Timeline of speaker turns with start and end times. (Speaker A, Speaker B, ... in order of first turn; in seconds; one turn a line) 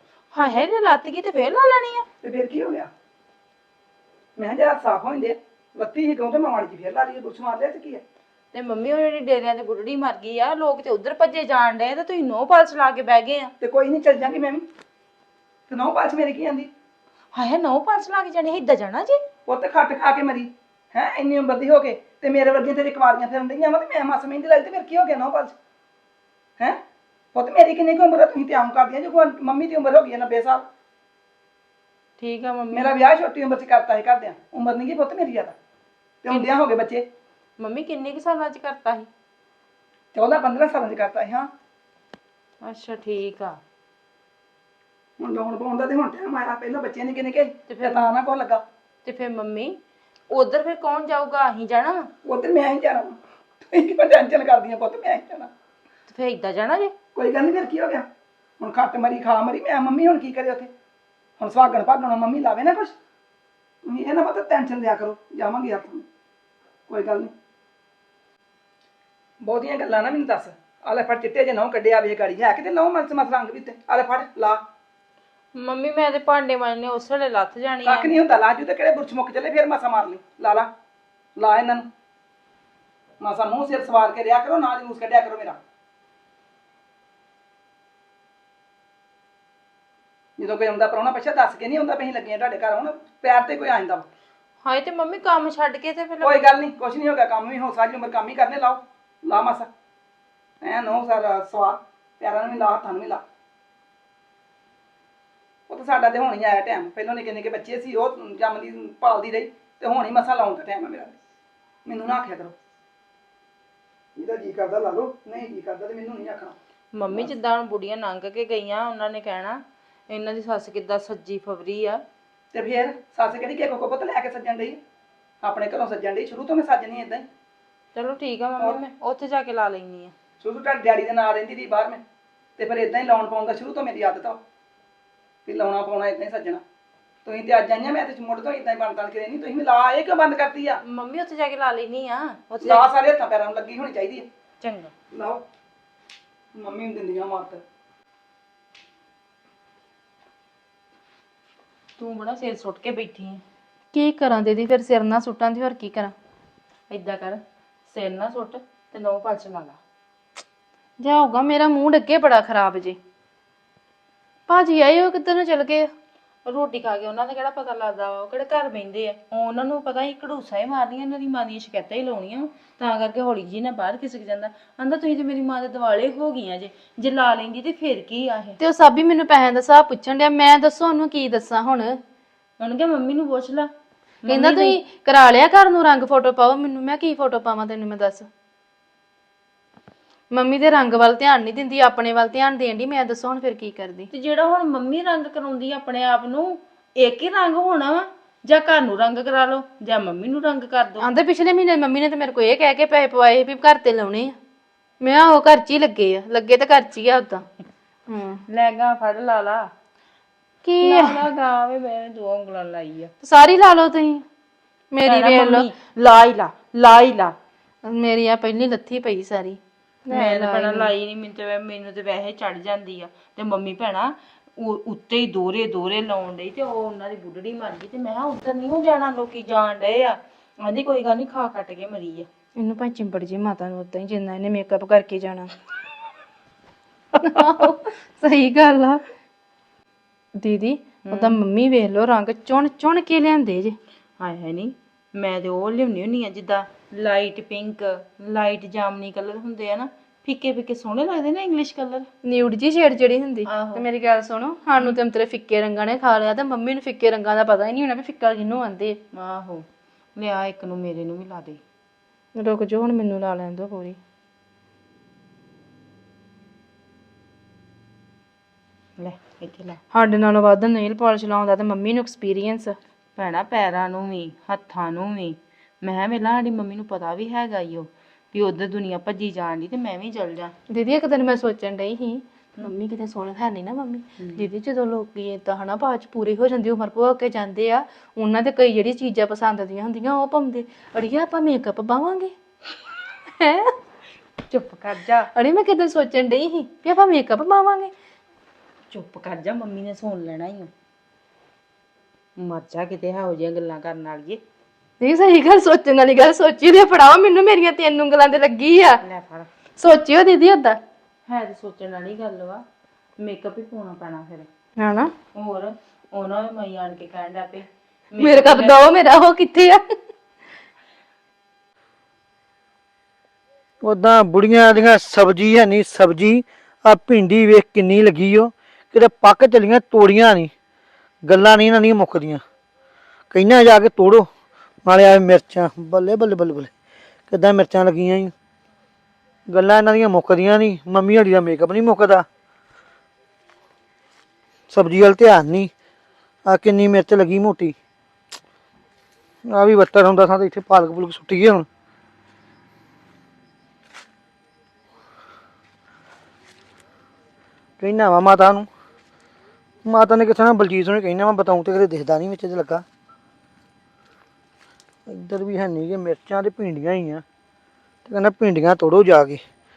Speaker A: 0.3-2.0
Speaker B: 2.2-2.9
Speaker B: 4.4-8.0
Speaker A: 8.5-13.5
Speaker B: 13.6-14.7
Speaker B: 15.7-16.7
Speaker A: 17.3-19.2
Speaker B: 19.5-25.5
Speaker B: 27.3-30.7
Speaker A: 32.2-32.9
Speaker B: 32.7-35.5
Speaker B: 36.2-37.0
Speaker A: 37.6-39.1
Speaker B: 40.1-41.5
Speaker A: 42.6-43.6
Speaker B: 45.2-48.6
Speaker A: 47.7-48.1
Speaker A: 49.0-49.8
Speaker A: 50.3-52.1
Speaker B: 52.2-55.5
Speaker A: 56.1-56.9
Speaker B: 57.1-58.1
Speaker B: 58.6-60.7
Speaker B: 61.4-62.9
Speaker B: 63.8-66.0
Speaker B: 66.9-67.3
Speaker B: 69.4-74.6
Speaker A: 75.5-78.1
Speaker B: 77.8-80.7
Speaker B: 81.3-81.9
Speaker B: 83.2-85.6
Speaker B: 90.4-94.0
Speaker A: 94.6-96.5
Speaker B: 96.2-99.7
Speaker B: 100.6-103.2
Speaker B: 105.7-111.2
Speaker B: 111.8-112.5
Speaker B: 114.2-116.5
Speaker A: 116.9-122.0
Speaker B: 117.1-117.3
Speaker B: 122.5-124.8
Speaker B: 125.4-127.3
Speaker A: 127.9-130.1
Speaker B: 130.4-132.0
Speaker B: 132.6-134.4
Speaker B: 135.4-136.6
Speaker B: 137.2-140.8
Speaker A: 140.9-142.9
Speaker B: 142.6-144.3
Speaker A: 144.6-144.9
Speaker B: 145.1-145.4
Speaker B: 146.5-147.6
Speaker A: 152.0-153.4
Speaker C: 153.9-156.1
Speaker A: 156.9-159.8
Speaker C: 161.0-163.0
Speaker C: 164.5-165.9
Speaker A: 166.4-178.6
Speaker C: 178.6-182.0
Speaker A: 182.6-183.7
Speaker A: 184.2-184.8
Speaker C: 184.3-188.3
Speaker C: 190.3-194.1
Speaker A: 194.1-201.1
Speaker C: 201.0-204.3
Speaker C: 205.0-207.4
Speaker C: 208.1-208.4
Speaker A: 208.5-209.7
Speaker C: 210.6-211.2
Speaker A: 210.8-213.1
Speaker C: 213.2-214.2
Speaker C: 214.9-215.7
Speaker A: 215.1-217.3
Speaker C: 217.8-220.9
Speaker A: 220.1-232.3
Speaker C: 232.6-235.5
Speaker C: 237.2-239.0
Speaker C: 240.3-243.8
Speaker A: 241.1-241.4
Speaker A: 244.2-252.1
Speaker C: 252.2-259.0
Speaker A: 253.5-253.8
Speaker A: 259.1-259.6
Speaker A: 260.1-261.6
Speaker C: 262.4-264.0
Speaker A: 269.0-269.8
Speaker C: 269.9-272.8
Speaker A: 273.1-280.5
Speaker C: 280.7-292.3
Speaker A: 284.2-284.4
Speaker C: 293.3-293.7
Speaker A: 294.5-295.3
Speaker C: 295.3-297.9
Speaker A: 298.9-300.7
Speaker A: 302.4-304.4
Speaker C: 305.0-309.0
Speaker A: 309.0-309.5
Speaker C: 309.8-310.8
Speaker A: 311.3-312.6
Speaker A: 313.2-314.5
Speaker C: 314.8-315.1
Speaker A: 315.3-318.8
Speaker C: 318.2-319.8
Speaker D: 323.8-330.5
Speaker D: 331.2-332.4
Speaker D: 333.3-334.3
Speaker D: 334.8-336.7
Speaker D: 337.3-338.3
Speaker D: 339.5-342.2
Speaker D: 344.7-345.7
Speaker D: 346.4-347.8
Speaker D: 349.4-351.7
Speaker D: 357.8-358.7
Speaker D: 359.8-362.8
Speaker D: 365.1-367.2
Speaker D: 368.1-369.4